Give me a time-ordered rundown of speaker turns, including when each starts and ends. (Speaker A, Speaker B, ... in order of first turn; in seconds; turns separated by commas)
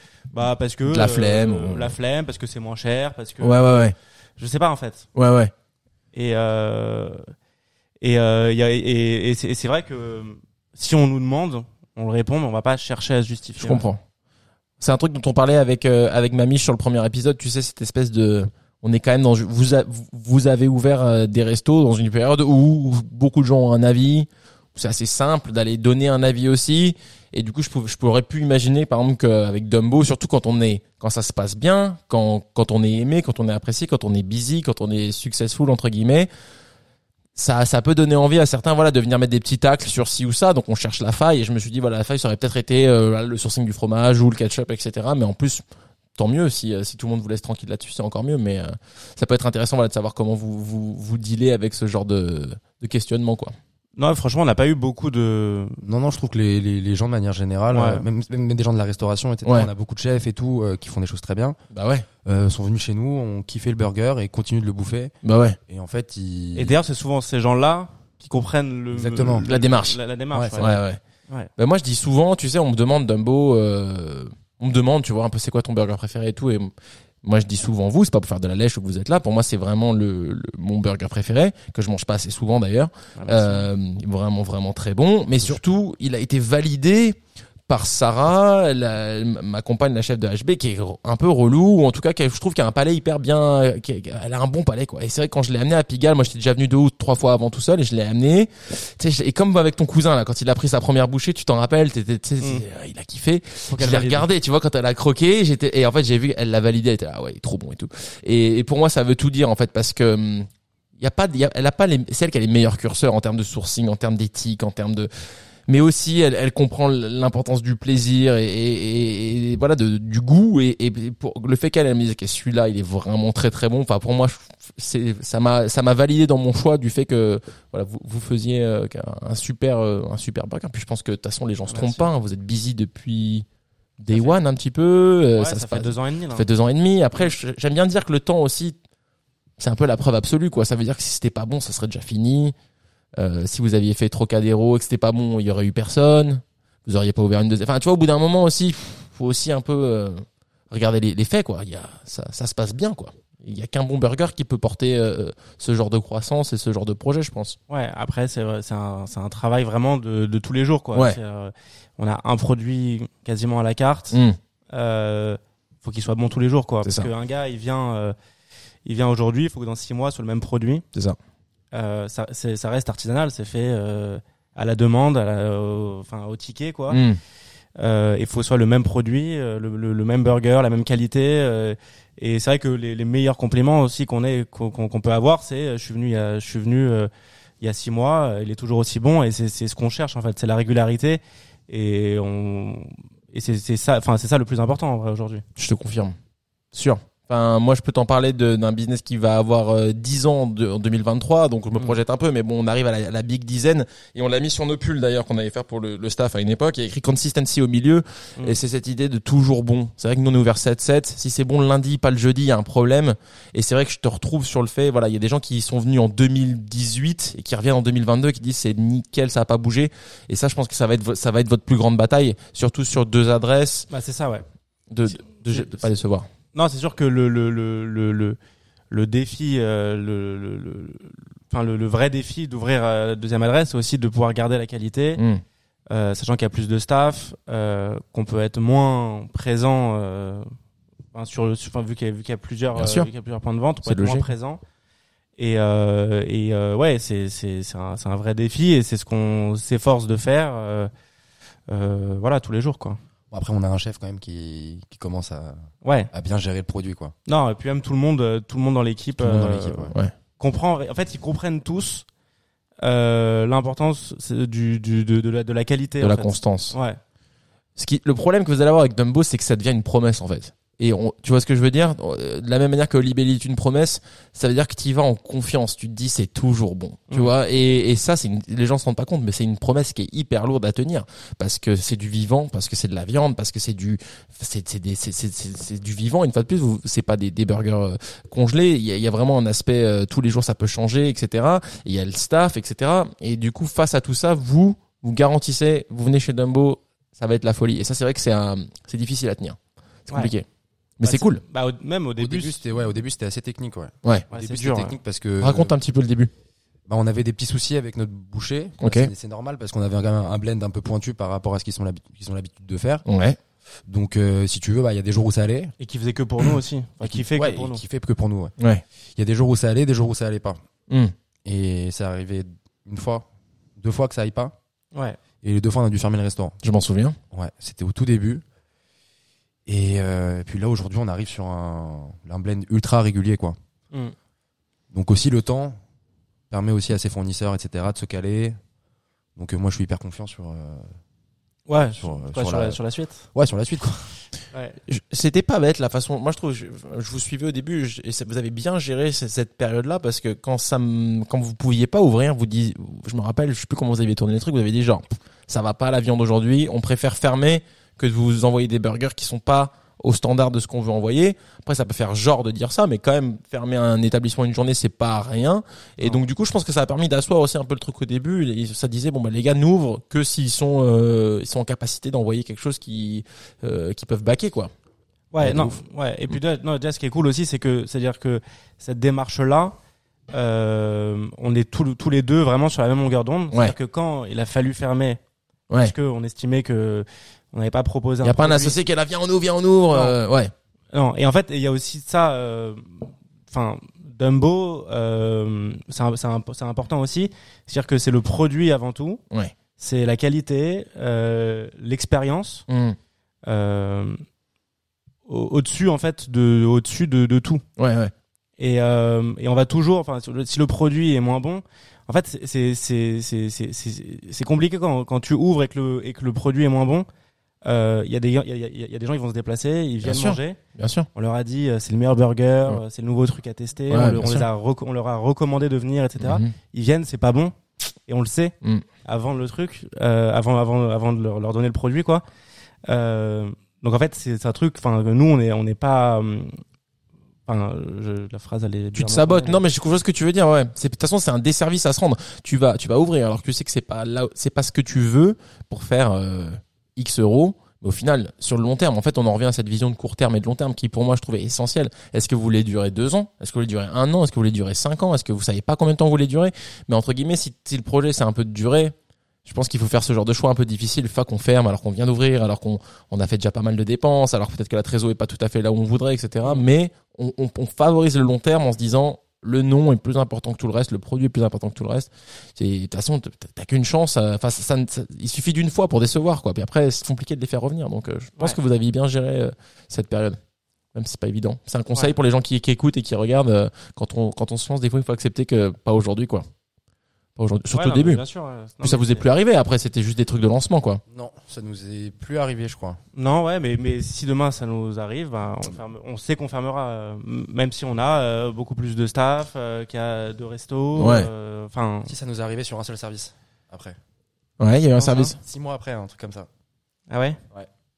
Speaker A: 0.3-5.1, Speaker B: 0.9-2.0, Speaker B: 3.4-4.0, Speaker B: 5.2-5.5, Speaker A: 6.1-7.2, Speaker A: 8.0-13.9, Speaker B: 13.6-14.0, Speaker B: 14.8-36.3, Speaker B: 37.4-45.6, Speaker B: 46.2-53.5, Speaker A: 54.0-55.8, Speaker C: 55.8-61.6, Speaker A: 57.7-58.0, Speaker B: 61.7-62.1, Speaker C: 62.2-65.1, Speaker B: 65.2-65.6, Speaker C: 65.7-66.8, Speaker A: 66.6-71.5, Speaker C: 68.9-69.5, Speaker B: 69.5-70.0, Speaker C: 70.3-70.7, Speaker B: 70.5-71.0, Speaker B: 71.6-76.7, Speaker B: 77.2-110.5, Speaker A: 83.2-83.7, Speaker A: 103.7-104.3, Speaker B: 111.0-115.1, Speaker B: 115.7-133.5, Speaker A: 131.7-132.1, Speaker B: 134.0-138.8, Speaker A: 134.1-134.4, Speaker A: 135.4-136.5, Speaker B: 139.6-142.5, Speaker B: 143.2-157.6, Speaker A: 157.7-164.2, Speaker B: 164.1-164.4, Speaker A: 164.7-168.2, Speaker B: 166.8-167.1, Speaker A: 168.8-170.8, Speaker A: 171.7-177.0, Speaker B: 176.9-177.2, Speaker A: 177.8-187.1, Speaker A: 187.6-195.4, Speaker B: 195.6-196.2, Speaker B: 196.7-223.9, Speaker A: 223.9-224.5, Speaker B: 224.9-226.3, Speaker A: 225.1-225.9, Speaker A: 226.5-228.4, Speaker A: 228.9-235.2, Speaker B: 235.2-235.4, Speaker A: 235.9-240.5, Speaker A: 241.1-244.6, Speaker B: 242.8-243.1, Speaker B: 243.8-244.3, Speaker A: 245.4-250.9, Speaker A: 251.7-253.0, Speaker C: 253.3-257.1, Speaker A: 255.8-256.1, Speaker A: 257.3-262.1, Speaker C: 259.2-259.9, Speaker A: 262.8-267.0, Speaker B: 266.0-266.8, Speaker B: 267.8-300.5, Speaker B: 301.0-301.4, Speaker A: 301.0-302.6, Speaker C: 302.2-305.7, Speaker A: 304.3-305.0, Speaker B: 305.4-306.3, Speaker C: 306.9-313.0, Speaker B: 308.8-309.1, Speaker B: 313.1-313.4, Speaker C: 313.9-315.7, Speaker A: 315.8-317.8, Speaker C: 317.0-318.6, Speaker C: 319.2-320.6, Speaker C: 321.4-323.3, Speaker C: 323.8-324.6, Speaker A: 324.9-325.2, Speaker C: 325.4-326.6, Speaker B: 326.6-327.2, Speaker C: 327.3-328.4, Speaker C: 329.7-333.6, Speaker C: 334.9-335.8, Speaker C: 336.5-338.6, Speaker C: 339.4-340.9, Speaker A: 341.7-343.3, Speaker C: 342.0-342.8, Speaker C: 343.4-344.1, Speaker A: 344.5-344.8, Speaker B: 344.9-374.7, Speaker A: 375.3-379.8, Speaker B: 375.4-375.8, Speaker A: 380.3-385.2, Speaker A: 385.8-388.8, Speaker B: 388.2-390.5, Speaker A: 389.9-390.2, Speaker A: 390.9-399.2, Speaker A: 399.8-402.6, Speaker B: 402.7-403.0, Speaker A: 403.5-404.2, Speaker A: 405.3-407.6, Speaker B: 407.8-408.1, Speaker A: 408.6-417.1, Speaker A: 417.6-420.6, Speaker B: 420.0-421.1, Speaker A: 421.1-427.5, Speaker B: 423.9-424.5, Speaker B: 426.2-426.5, Speaker A: 428.1-432.2, Speaker A: 432.9-436.6, Speaker A: 437.5-439.6, Speaker B: 438.9-458.9, Speaker B: 459.4-480.4, Speaker B: 480.9-486.5, Speaker B: 487.4-488.2, Speaker A: 487.7-489.2, Speaker B: 488.8-491.0, Speaker C: 491.1-493.0, Speaker A: 493.1-502.1, Speaker B: 501.0-501.3, Speaker C: 502.1-504.0, Speaker B: 504.6-505.4, Speaker A: 505.0-505.3, Speaker C: 505.4-506.5, Speaker A: 507.1-507.4